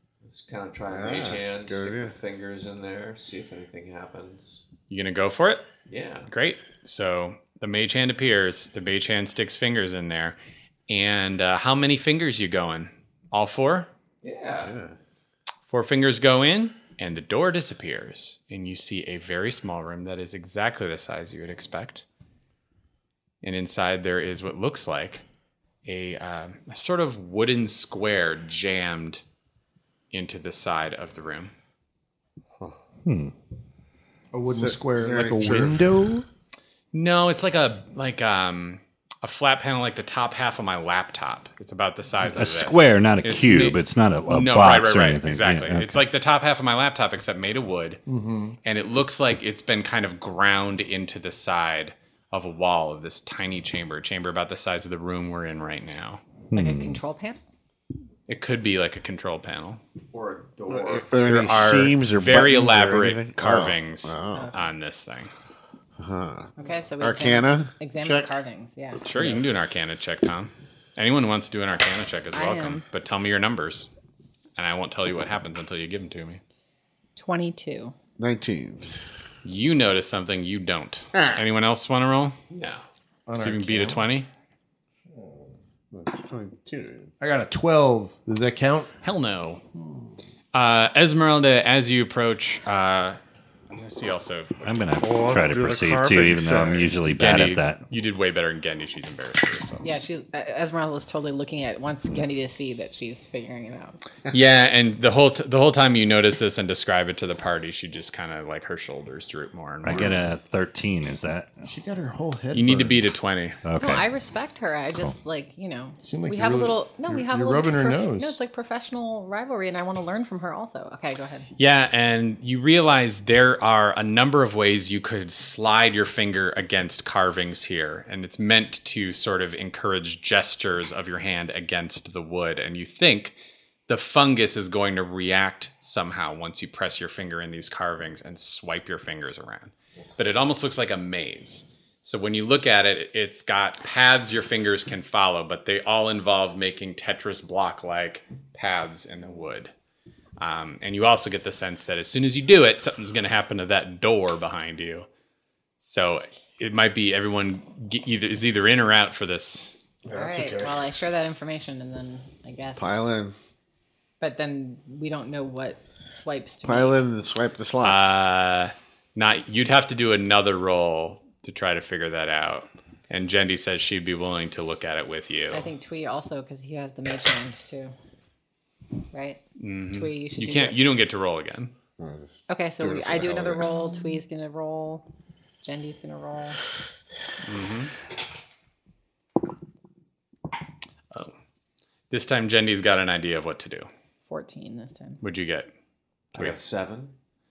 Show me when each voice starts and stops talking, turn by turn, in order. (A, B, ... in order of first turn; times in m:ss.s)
0:00.2-0:04.6 A
0:00.9-0:02.1 B
0:04.9-0:05.7 C
0:05.9-0:06.3 A
0:06.3-0:13.9 C
0:14.2-0:14.7 A
0:14.6-0:14.9 B
0:15.7-0:22.0 C
0:23.4-0:25.2 C
0:25.8-0:29.2 C
0:30.1-0:31.5 C
0:33.0-0:33.3 D
0:34.3-0:36.2 E
0:34.5-0:35.9 B
0:36.9-0:48.0 C
0:42.2-0:46.0 D
0:48.1-0:48.6 E
0:48.6-0:56.2 C
0:56.5-0:57.0 D
0:56.5-0:57.4 F
0:58.3-0:59.8 C
1:00.1-1:01.2 A
1:00.7-1:04.5 B
1:01.2-1:05.3 C
1:06.0-1:08.3 B
1:06.6-1:09.4 F
1:09.0-1:13.9 C
1:12.3-1:12.8 F
1:14.6-1:16.4 C
1:17.2-1:17.9 F
1:18.2-1:18.9 B
1:19.4-1:22.8 C
1:23.3-1:24.0 E
1:23.4-1:24.3 C
1:25.9-1:27.1 B
1:27.2-1:28.9 E
1:29.0-1:29.6 C
1:30.5-1:33.2 C
1:33.7-1:34.9 C
1:34.6-1:37.8 D
1:35.0-1:36.9 B
1:37.1-1:39.8 C
1:39.8-1:44.0 F
1:44.3-1:50.2 C
1:49.8-1:51.6 D
1:51.7-1:53.0 E
1:52.5-1:53.6 C
1:53.6-1:54.0 D
1:53.8-2:01.5 F
1:56.0-1:58.4 E
2:01.6-2:13.4 C
2:13.9-2:29.7 C
2:30.4-2:35.0 C
2:35.8-2:39.7 C
2:40.0-2:40.8 B
2:40.1-2:43.0 F
2:42.8-2:43.4 B
2:44.2-2:47.0 F
2:46.6-2:48.1 B
2:47.8-2:55.7 C
2:55.5-2:57.9 F
2:59.1-2:59.4 F
2:59.6-3:01.7 C
2:59.9-3:00.8 F
3:02.0-3:03.6 B
3:02.5-3:05.0 F
3:05.6-3:06.6 F
3:07.4-3:07.9 C
3:12.1-3:13.9 C
3:14.3-3:15.2 F
3:15.2-3:15.7 C
3:16.3-3:17.1 A